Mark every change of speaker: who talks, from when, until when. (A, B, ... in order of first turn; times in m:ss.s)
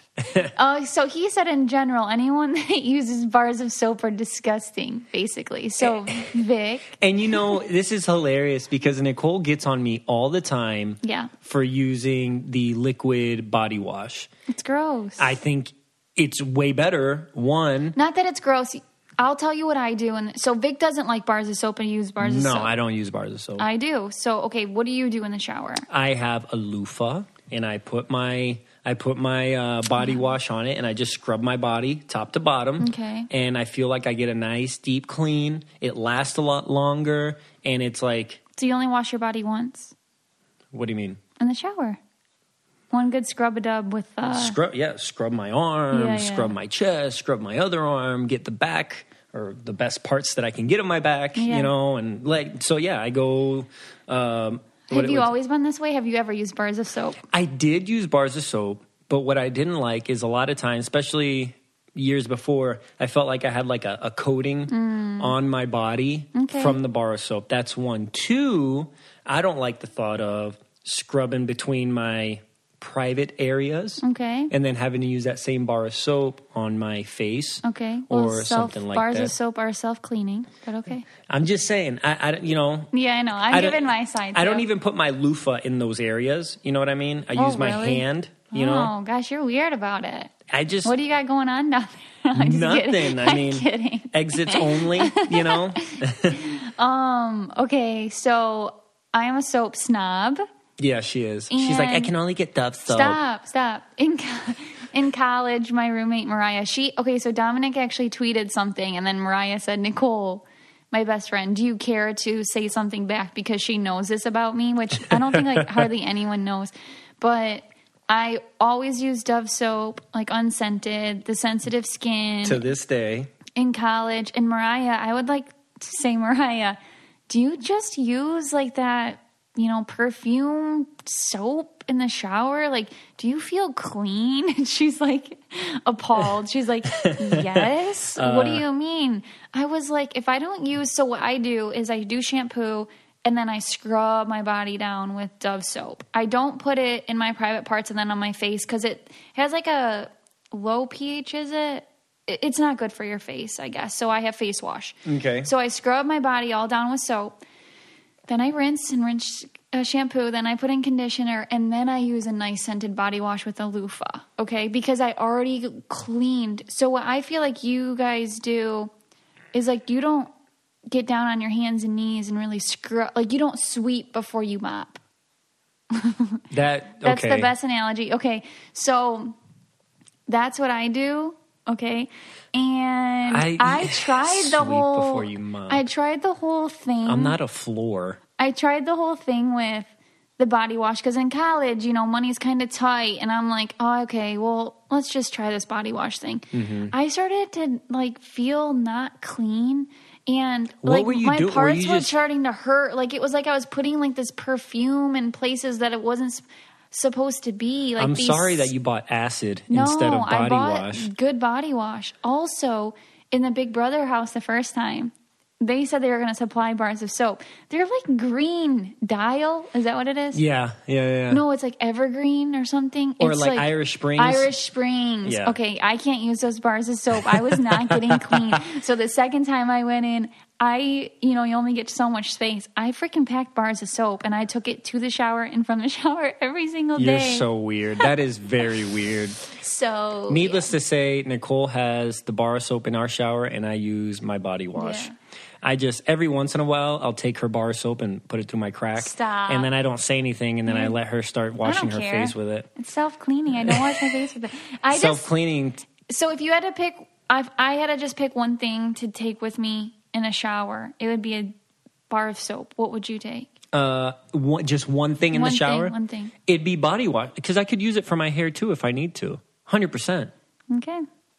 0:00.5-0:06.9 A
0:05.8-0:06.3 B
0:07.0-0:14.3 B
0:11.0-0:11.3 A
0:14.5-0:15.3 A
0:15.2-0:18.0 B
0:18.0-0:22.7 A
0:22.2-0:23.6 B
0:23.6-0:25.8 A
0:25.9-0:38.4 B
0:30.0-0:30.3 A
0:32.8-0:33.3 A
0:38.6-0:39.9 A
0:40.7-0:41.2 B
0:41.4-0:42.0 A
0:42.9-0:44.6 A
0:44.3-0:55.3 B
0:45.9-0:46.5 A
0:51.4-0:51.7 A
0:54.9-0:57.2 A
0:57.3-1:19.3 B
1:04.7-1:05.3 A
1:06.4-1:06.8 A
1:14.0-1:14.5 A
1:17.6-1:21.1 A
1:21.3-1:22.9 B
1:22.9-1:24.6 A
1:23.5-1:28.9 B
1:27.4-1:30.3 A
1:30.5-1:31.0 B
1:30.8-1:35.6 A
1:32.4-1:36.4 B
1:36.4-1:40.4 A
1:40.8-1:43.2 B
1:41.5-1:42.1 A
1:42.9-2:02.6 A
1:55.1-1:55.9 B
2:02.4-2:03.3 B
2:03.6-2:06.8 A
2:07.3-2:37.3 A
2:16.9-2:18.6 B
2:35.1-2:35.5 B
2:38.3-2:48.9 A
2:49.5-2:50.3 A
2:50.9-2:55.0 A
2:55.9-2:56.4 A
2:56.5-2:57.5 B
2:57.0-2:59.4 A
3:00.3-3:07.4 A
3:03.3-3:05.9 B
3:07.1-3:08.2 B
3:08.4-3:28.7 A
3:16.5-3:16.9 B
3:20.8-3:22.2 B
3:28.0-3:31.1 B
3:29.7-3:40.4 A
3:40.3-3:41.4 B
3:41.3-3:57.4 A
3:43.2-3:44.5 B
3:45.2-3:45.6 B
3:47.4-3:48.6 B
3:57.0-3:59.4 B
3:59.5-4:00.7 A
4:00.3-4:05.1 B
4:04.8-4:05.1 A
4:05.6-4:12.7 B
4:09.0-4:09.7 A
4:10.6-4:10.9 A
4:11.6-4:15.3 A
4:13.5-4:14.1 B
4:14.9-4:15.8 B
4:16.1-4:21.6 A
4:22.1-4:23.5 A
4:23.7-4:25.9 B
4:25.3-4:26.3 A
4:26.4-4:30.3 B
4:30.7-4:31.0 A